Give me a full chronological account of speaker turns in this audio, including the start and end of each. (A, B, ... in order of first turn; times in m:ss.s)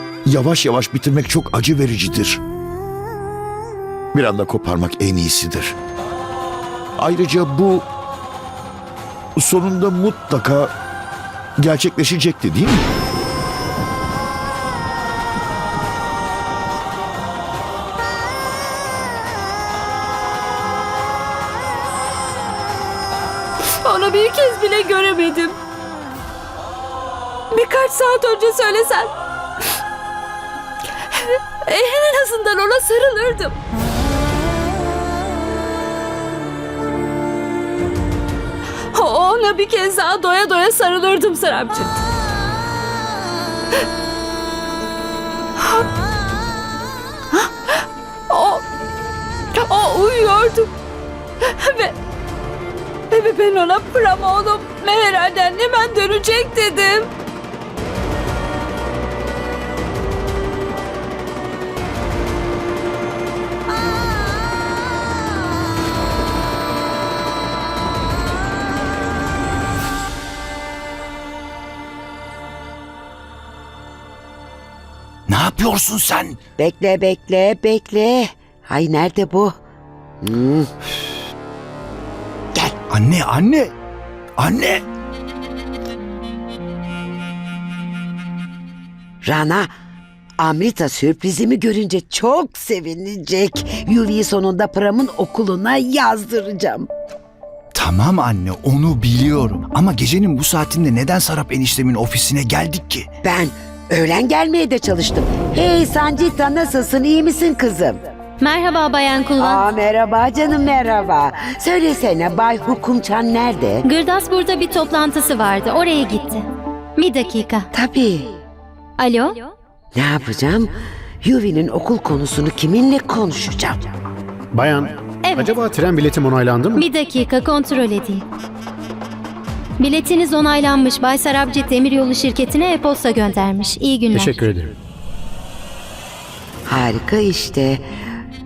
0:00.2-0:02.4 A
0:04.1-0:05.8 A
0:07.0-0:07.8 A
0:09.4-0:10.7 A
0:11.6-0:12.9 A
0:23.8-0:25.6 B
0:27.5-0:29.1 B
0:31.6-0:33.5 B
0:38.9-0:41.9 B
0:48.3-0:48.6 B
0:49.6-0:50.7 B
0:51.6-0:51.9 B
0:53.1-0:57.1 B
1:15.3-1:16.4 C
1:16.6-1:19.5 D
1:20.2-1:20.7 D
1:22.9-1:23.7 C
1:24.4-1:24.8 C
1:29.2-1:29.7 D
1:30.4-1:36.9 D
1:37.7-1:43.1 C
1:43.2-1:48.0 D
1:48.4-1:49.6 E
1:49.4-1:53.9 D
1:53.8-1:57.6 E
1:57.7-1:58.4 D
1:59.0-1:59.5 E
1:59.9-2:00.7 D
2:01.2-2:03.8 D
2:04.5-2:06.8 F
2:05.2-2:05.6 E
2:06.7-2:08.2 E
2:09.8-2:14.4 E
2:14.1-2:14.7 F
2:16.7-2:17.8 D